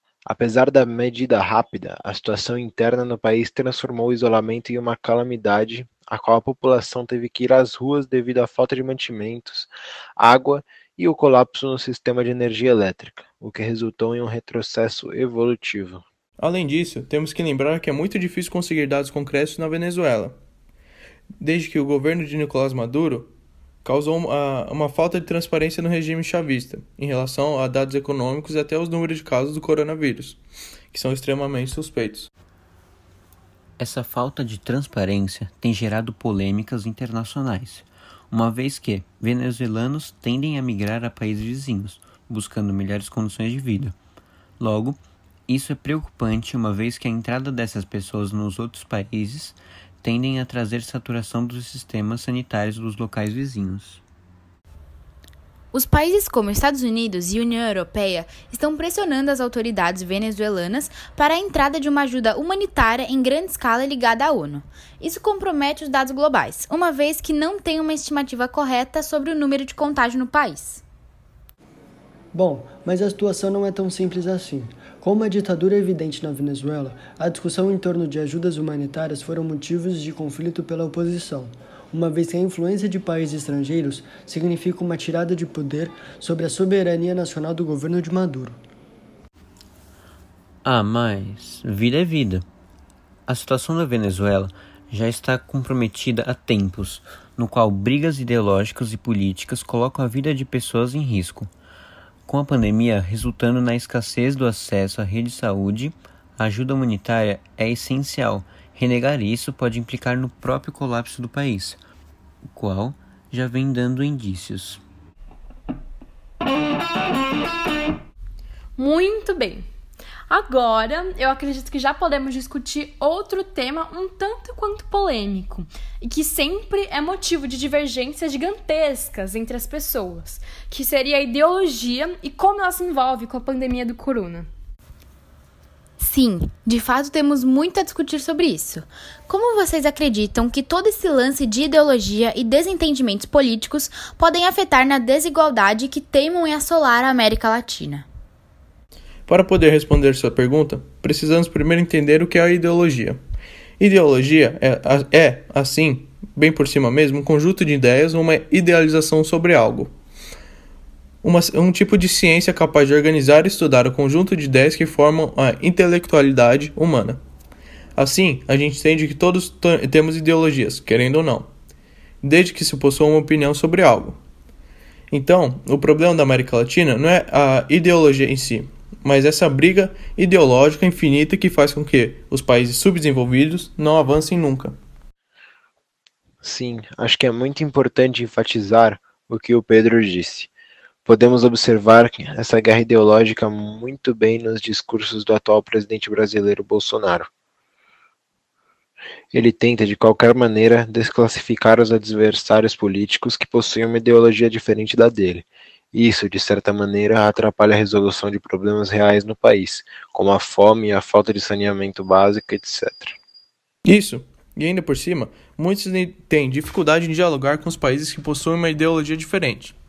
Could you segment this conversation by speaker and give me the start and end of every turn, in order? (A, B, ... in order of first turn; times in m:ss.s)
0:00.2-0:16.0 A
0:16.4-0:20.3 B
0:21.4-0:23.3 B
0:23.8-0:30.4 B
0:30.9-0:32.3 B
0:33.8-0:43.9 C
0:44.6-0:54.0 C
0:55.7-1:10.8 D
1:12.3-1:28.6 E
1:30.6-1:32.4 C
1:33.3-1:41.5 C
1:42.3-1:51.8 C
1:52.5-1:54.8 C
1:58.8-1:59.7 F
2:00.3-2:14.5 F
2:16.0-2:28.0 D
2:29.3-2:33.2 B
2:33.8-2:39.9 B
2:41.2-2:47.2 B
2:48.0-2:51.5 B
2:52.2-2:54.2 B
2:55.1-3:04.8 B
3:06.4-3:10.5 A
3:11.0-3:17.3 A
3:19.3-3:33.2 A
3:33.8-3:39.8 B